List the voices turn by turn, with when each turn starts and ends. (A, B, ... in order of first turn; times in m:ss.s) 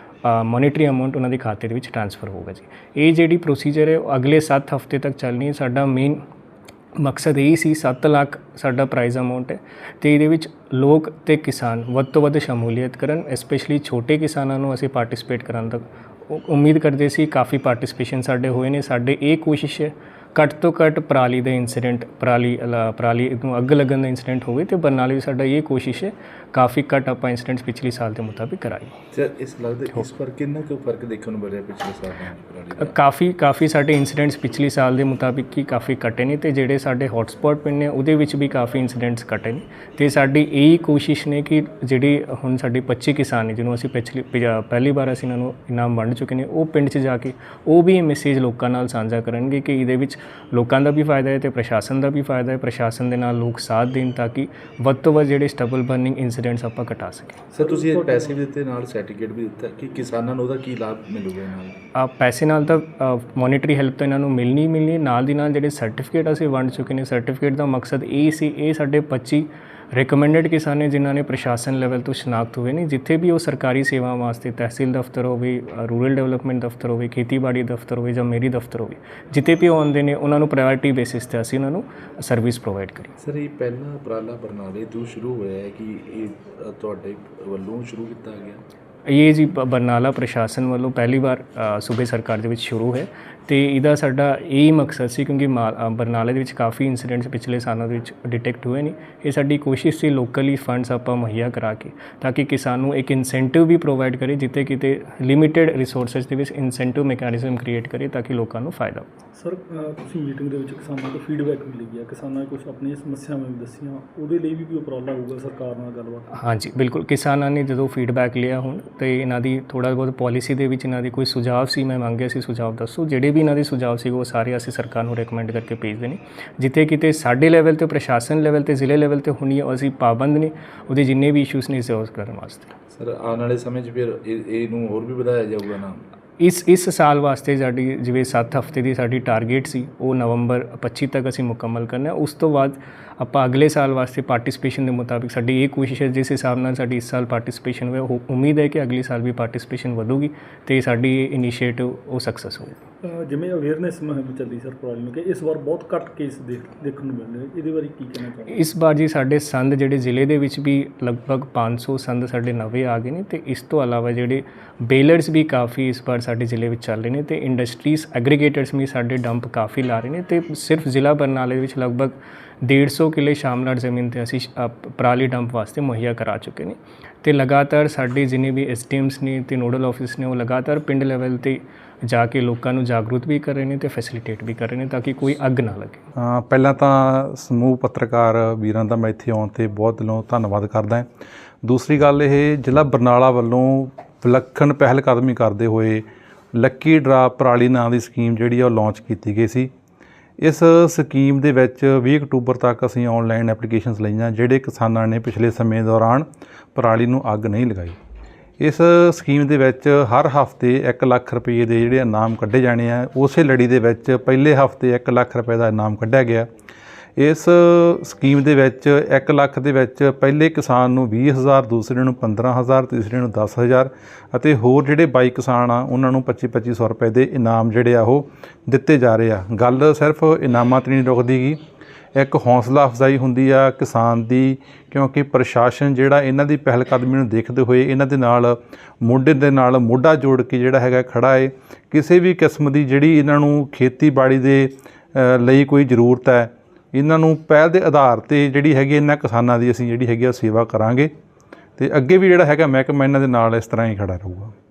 0:00.2-0:06.2 A
0:07.0-0:28.9 A
0:29.1-0:33.0 B
0:32.8-0:57.4 A
0:57.5-1:01.8 B
0:57.5-0:58.4 C
1:01.9-1:23.1 A
1:23.2-1:28.6 B
1:29.1-1:49.0 A
1:49.4-1:56.3 C
1:56.3-2:12.8 A
2:12.9-2:16.0 B
2:16.4-2:32.8 A
2:33.0-2:38.7 C
2:38.5-3:06.0 A
3:06.2-3:11.1 D
3:11.6-3:19.7 D
3:20.4-3:28.0 D
3:28.6-3:36.5 D
3:37.2-3:51.6 D
3:52.1-4:11.1 D
4:11.8-4:14.5 D